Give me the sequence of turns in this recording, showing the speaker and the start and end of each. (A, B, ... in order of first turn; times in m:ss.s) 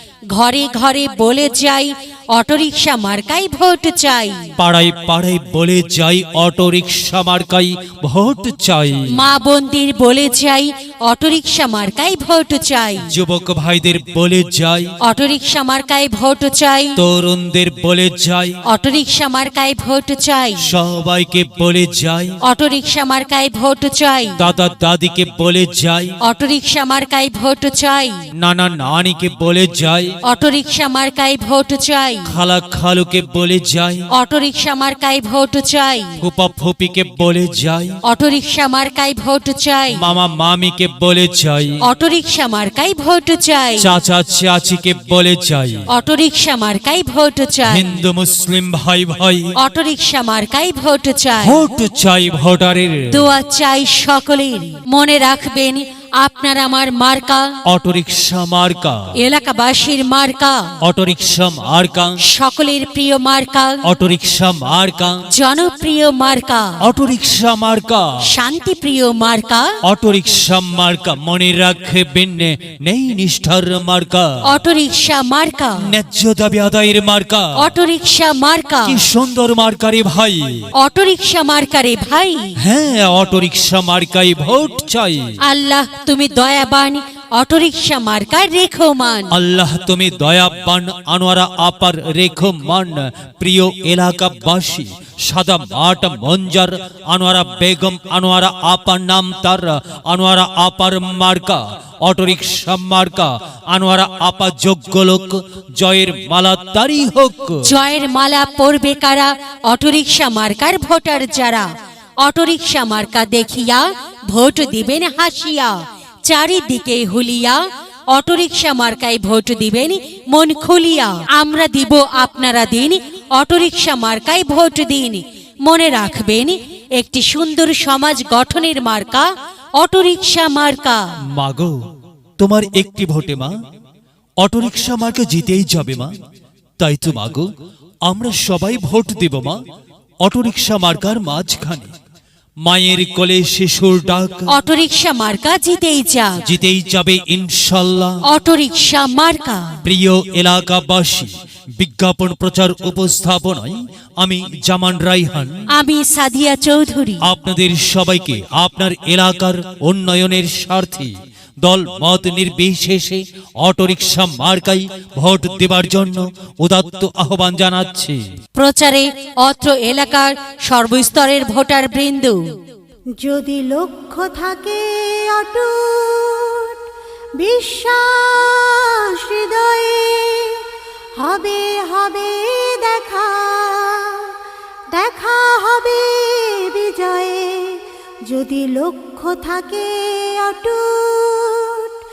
0:00.3-0:04.5 A
0:04.6-0:09.1 B
0:09.1-0:13.1 A
0:13.0-0:14.9 B
0:15.0-0:17.0 A
0:17.0-0:18.6 B
0:18.7-0:20.7 A
0:20.6-0:22.4 B
0:22.4-0:24.4 A
0:24.4-0:26.1 B
0:26.2-0:28.3 A
0:28.4-0:30.2 B
0:30.2-0:32.4 A
0:32.3-0:34.0 B
0:34.1-0:36.2 A
0:36.2-0:38.0 B
0:38.0-0:40.0 A
0:39.9-0:41.8 B
0:41.8-0:43.9 A
0:43.8-0:45.9 B
0:45.9-0:48.0 A
0:47.7-0:49.5 B
0:49.6-0:51.6 A
0:51.4-0:53.3 B
0:53.1-0:57.6 A
0:57.7-0:59.1 B
0:59.2-1:00.7 A
1:00.8-1:02.2 B
1:02.2-1:03.8 A
1:03.8-1:05.2 B
1:05.3-1:06.8 A
1:06.8-1:08.1 B
1:08.2-1:09.7 A
1:09.8-1:14.4 B
1:14.4-1:15.9 A
1:15.8-1:17.7 B
1:17.6-1:19.0 A
1:18.9-1:20.7 B
1:20.8-1:22.6 A
1:22.6-1:25.3 B
1:25.4-1:29.4 A
1:29.3-1:47.7 B
1:47.6-1:51.7 A
1:52.2-2:11.1 A
2:11.3-2:11.8 B
2:12.4-2:13.6 B
2:14.4-2:16.1 B
2:16.8-2:17.5 B
2:18.0-2:19.6 B
2:20.2-2:21.9 B
2:22.6-2:24.5 B
2:24.5-2:26.4 A
2:26.4-2:28.2 B
2:28.3-2:29.8 A
2:29.8-2:35.6 B
2:35.7-2:37.3 A
2:37.2-2:48.2 B
2:48.6-2:52.4 A
2:53.2-2:56.8 C
2:57.4-3:00.6 C
3:01.2-3:04.3 C
3:04.9-3:11.9 C